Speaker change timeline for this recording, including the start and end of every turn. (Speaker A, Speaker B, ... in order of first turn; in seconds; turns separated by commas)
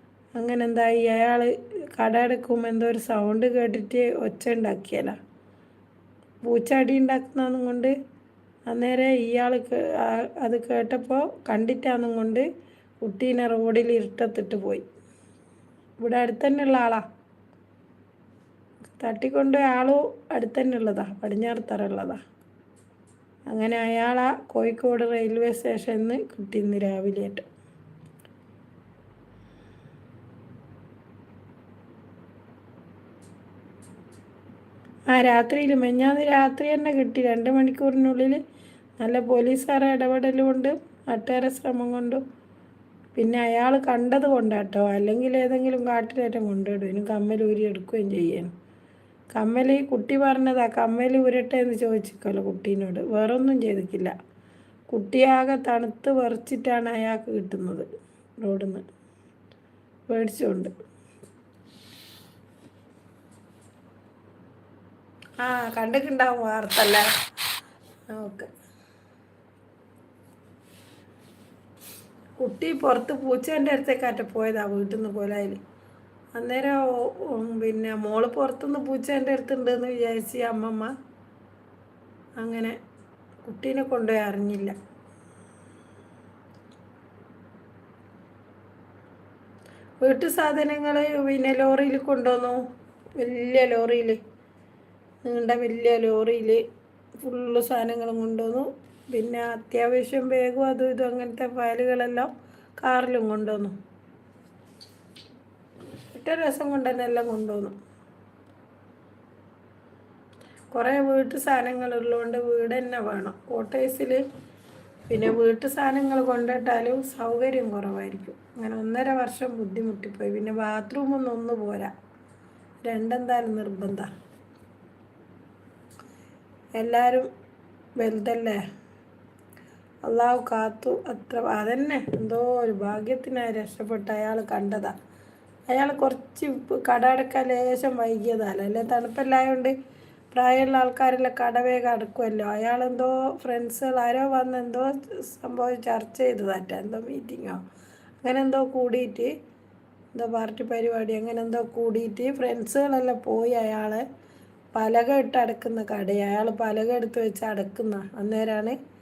Speaker A: 0.3-5.2, Speaker A: 6.5-7.9, Speaker A: 8.7-12.4, Speaker A: 13.0-14.8, Speaker A: 16.0-17.0, Speaker A: 18.8-22.2, Speaker A: 23.5-27.4, Speaker A: 35.1-38.4, Speaker A: 39.0-42.2, Speaker A: 43.1-48.5, Speaker A: 49.3-54.1, Speaker A: 54.9-57.9, Speaker A: 58.4-58.8, Speaker A: 60.1-60.7, Speaker A: 65.4-67.1, Speaker A: 68.1-68.5, Speaker A: 72.4-75.6, Speaker A: 76.3-80.9, Speaker A: 82.4-82.8, Speaker A: 83.4-84.7, Speaker A: 90.0-92.6, Speaker A: 93.2-94.2, Speaker A: 95.2-96.6, Speaker A: 97.2-102.3, Speaker A: 102.8-103.8, Speaker A: 106.1-107.7, Speaker A: 110.7-114.2, Speaker A: 115.1-121.9, Speaker A: 122.8-124.1, Speaker A: 126.8-127.3, Speaker A: 128.0-128.6, Speaker A: 130.0-134.9, Speaker A: 135.7-139.7, Speaker A: 140.3-147.6, Speaker A: 148.2-149.3, Speaker A: 150.1-154.0, Speaker A: 154.7-158.8